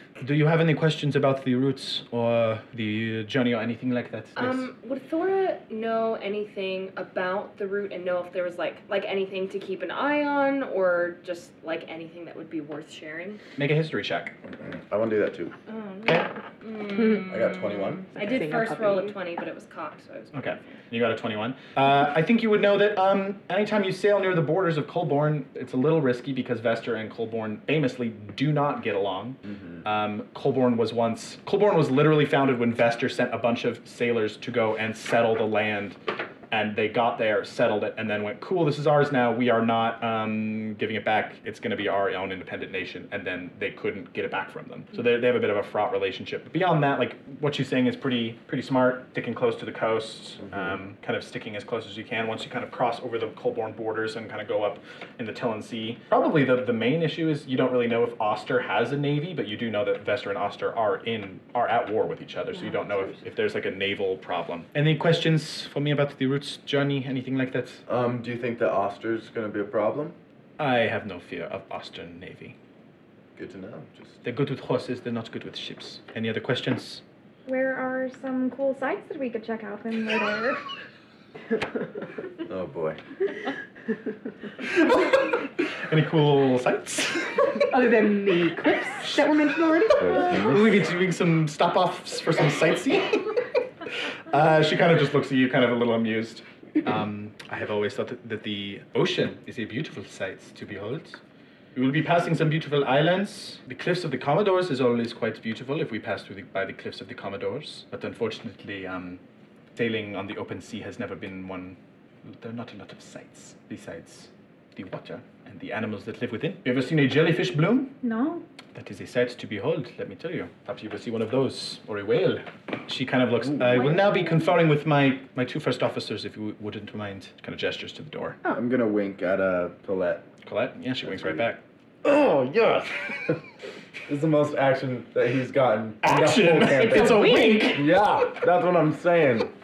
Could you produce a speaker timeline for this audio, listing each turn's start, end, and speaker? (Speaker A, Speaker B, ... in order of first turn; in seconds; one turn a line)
Speaker A: 0.2-4.7
Speaker B: 4.3-13.4
Speaker A: 13.6-14.4
Speaker C: 14.6-15.5
Speaker B: 15.7-20.5
Speaker D: 16.9-17.3
Speaker C: 17.3-18.1
Speaker D: 18.1-19.1
Speaker A: 20.3-36.0
Speaker A: 36.5-67.8
Speaker D: 62.5-63.2
Speaker C: 67.9-70.2
Speaker A: 70.6-72.5
Speaker C: 73.3-74.2
Speaker A: 74.2-77.0
Speaker E: 77.5-80.6
Speaker C: 82.4-83.0
Speaker A: 84.9-85.2
Speaker A: 85.9-87.5
Speaker D: 87.7-90.3
Speaker C: 90.0-90.8
Speaker A: 90.1-93.3
Speaker A: 94.3-101.2
Speaker A: 101.7-109.2
Speaker A: 109.8-117.9
Speaker E: 118.0-118.4
Speaker A: 118.7-128.4
Speaker E: 123.7-124.5
Speaker C: 128.5-130.3
Speaker A: 130.4-131.6
Speaker C: 131.0-131.4
Speaker C: 132.0-133.4
Speaker C: 134.1-139.5
Speaker A: 136.0-137.9
Speaker D: 136.8-137.8